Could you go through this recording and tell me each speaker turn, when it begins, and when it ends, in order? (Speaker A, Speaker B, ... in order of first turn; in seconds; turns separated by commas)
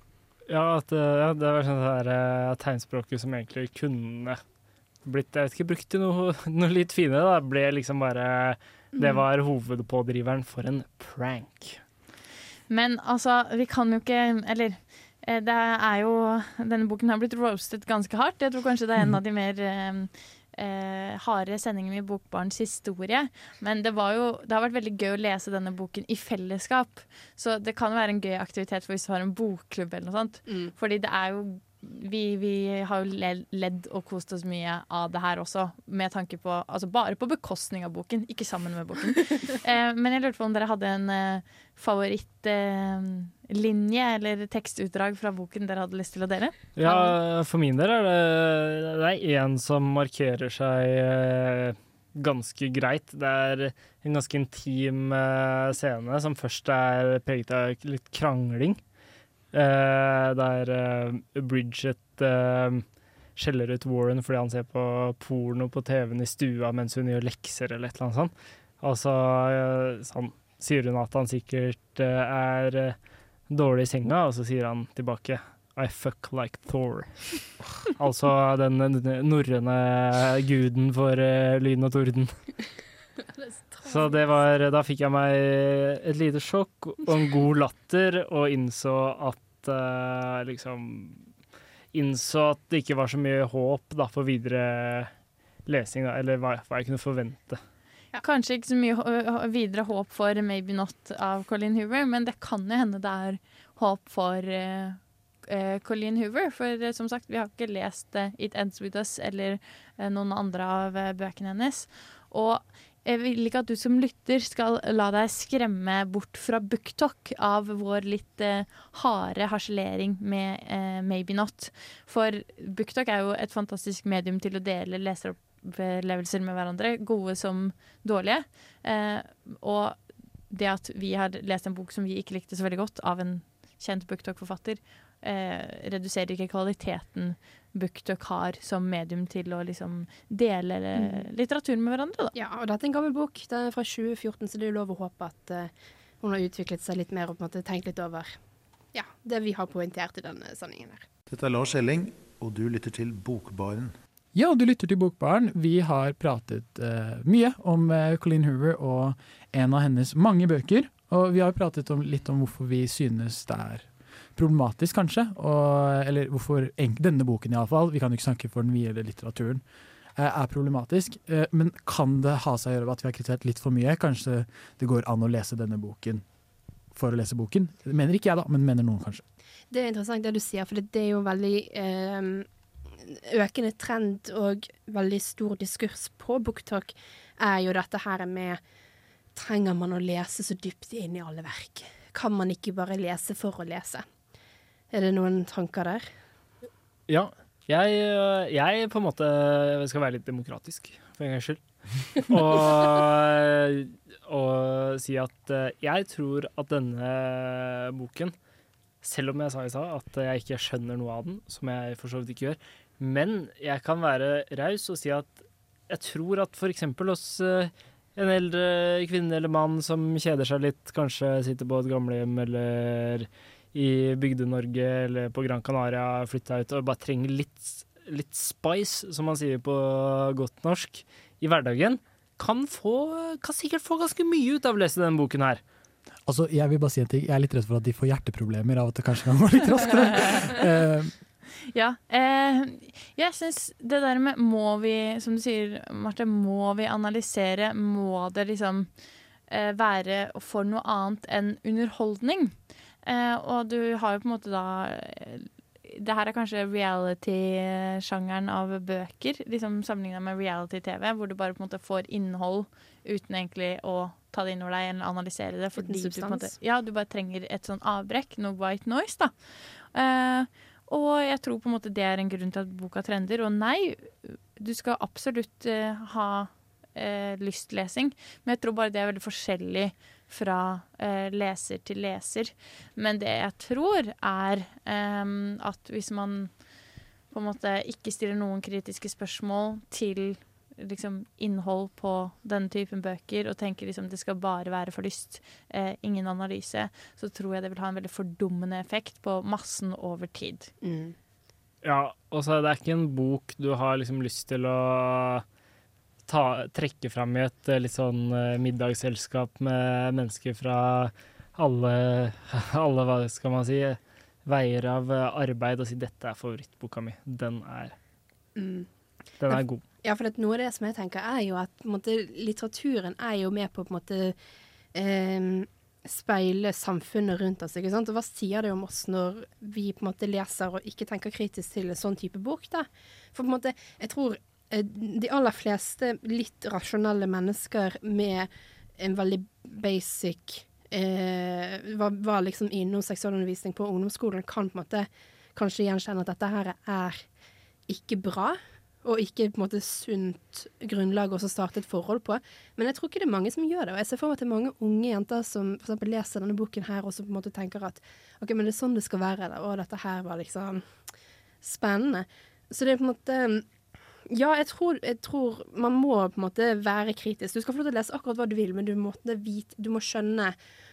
Speaker A: 0.5-4.4, Speaker A: 5.0-11.8, Speaker B: 8.9-9.2, Speaker C: 12.7-47.1, Speaker B: 30.5-30.7, Speaker A: 46.8-58.8, Speaker A: 59.5-73.0, Speaker A: 73.5-82.3, Speaker B: 83.4-84.2, Speaker A: 83.8-91.2, Speaker A: 91.9-95.1, Speaker A: 95.7-97.6, Speaker C: 98.2-130.0, Speaker C: 130.5-142.3, Speaker B: 140.9-141.3, Speaker B: 142.3-148.3, Speaker B: 148.9-151.0, Speaker D: 151.3-153.9, Speaker E: 154.3-169.6, Speaker E: 170.2-176.2, Speaker E: 176.9-179.2, Speaker B: 179.7-188.6, Speaker B: 189.3-194.1, Speaker B: 194.9-196.1, Speaker A: 197.1-201.6, Speaker A: 202.1-208.3, Speaker A: 209.0-235.6, Speaker E: 236.2-241.1, Speaker C: 241.7-248.9, Speaker C: 249.5-269.3, Speaker B: 265.8-266.5, Speaker C: 269.9-286.5, Speaker C: 287.3-300.7, Speaker B: 300.8-301.1, Speaker A: 301.8-305.4, Speaker A: 306.3-317.9, Speaker B: 318.6-318.9, Speaker A: 319.4-319.8, Speaker B: 319.5-324.3, Speaker B: 324.9-347.2, Speaker B: 347.9-360.8, Speaker B: 361.6-363.6, Speaker B: 364.3-370.6